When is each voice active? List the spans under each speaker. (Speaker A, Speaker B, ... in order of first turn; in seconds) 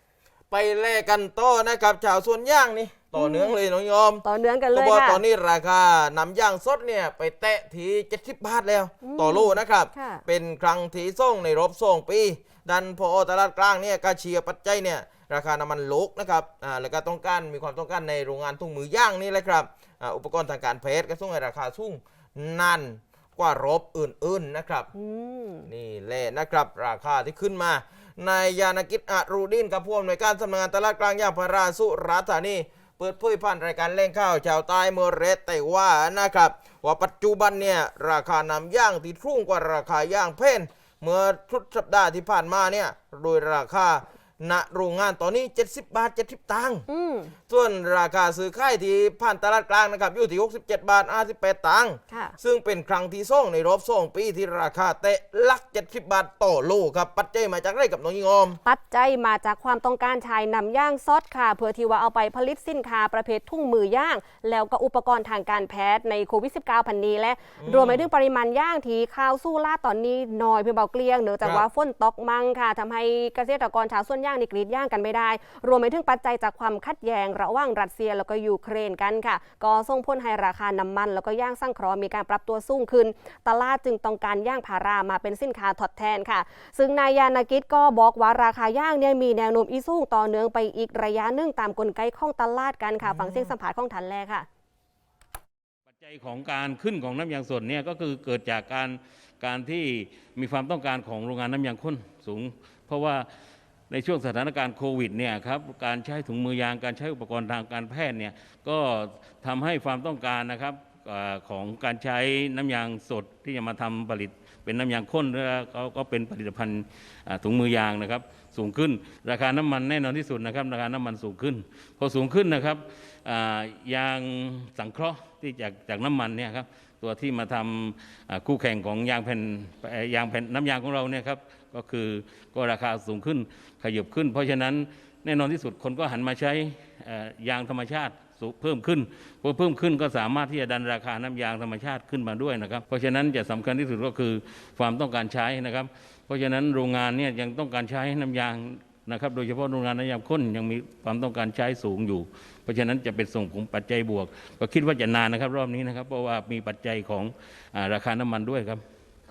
Speaker A: 0.5-24.9, 25.7-46.8, 47.5-58.6, 67.6-68.1
Speaker B: 3.1-3.5, 4.2-5.2, 9.0-10.2, 24.9-25.7, 46.9-47.3, 52.1-52.4, 58.6-94.5
Speaker C: 95.9-103.2, 103.9-158.8